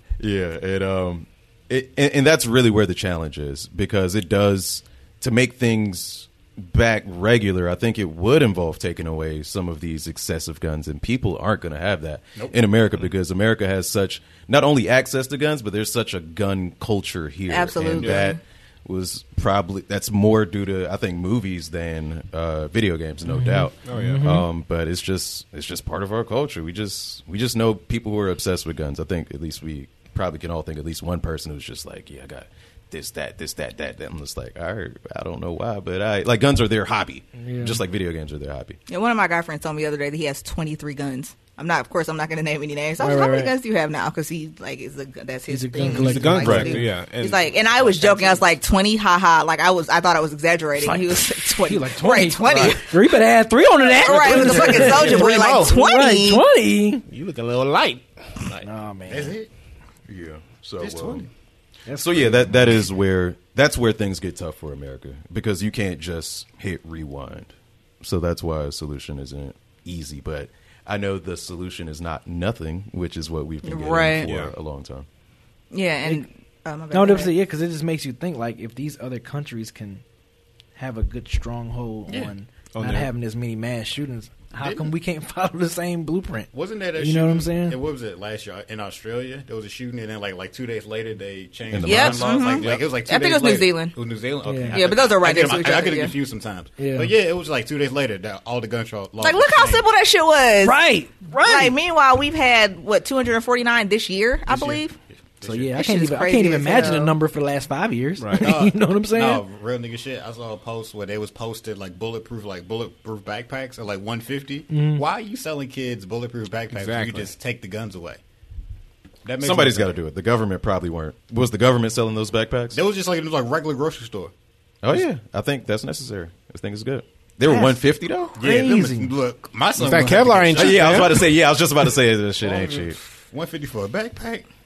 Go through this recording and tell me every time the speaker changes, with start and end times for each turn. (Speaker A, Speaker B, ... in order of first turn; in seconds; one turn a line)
Speaker A: 0.2-38.8
Speaker B: 12.3-12.7
Speaker C: 17.5-18.4
Speaker D: 17.9-18.3
Speaker E: 23.2-24.4
Speaker D: 23.8-24.2
Speaker E: 37.4-37.8
Speaker C: 38.9-52.9
Speaker E: 43.0-43.5
Speaker E: 45.5-46.9
Speaker D: 45.8-48.4
Speaker A: 46.4-46.8
Speaker E: 50.8-57.0
Speaker C: 53.9-56.4
Speaker D: 54.1-55.7
Speaker D: 57.1-58.6
Speaker E: 58.6-59.4
Speaker B: 59.1-59.5
Speaker A: 60.1-61.3
Speaker B: 60.8-61.3
Speaker E: 61.9-62.2
Speaker A: 62.0-75.0
Speaker C: 73.6-74.3
Speaker D: 74.2-74.5
Speaker C: 75.7-77.3
Speaker E: 76.9-80.0
Speaker E: 80.8-87.8
Speaker D: 82.7-83.1
Speaker B: 84.6-84.9
Speaker B: 86.5-99.8
Speaker A: 91.7-92.4
Speaker C: 91.8-94.0
Speaker E: 94.4-94.8
Speaker C: 94.7-96.1
Speaker E: 96.8-97.1
Speaker C: 99.2-100.8
Speaker E: 100.6-101.7
Speaker C: 101.4-105.0
Speaker B: 104.5-105.8
Speaker E: 105.4-109.4
Speaker C: 105.8-107.1
Speaker D: 108.2-108.5
Speaker B: 108.4-118.2
Speaker E: 114.7-115.0
Speaker D: 116.7-117.3
Speaker B: 119.2-119.9
Speaker A: 119.4-122.8
Speaker B: 122.7-124.3
Speaker A: 124.8-128.4
Speaker E: 127.5-127.8
Speaker B: 128.4-131.1
Speaker E: 128.4-129.1
Speaker D: 129.8-131.1
Speaker A: 130.6-133.0
Speaker B: 132.4-134.5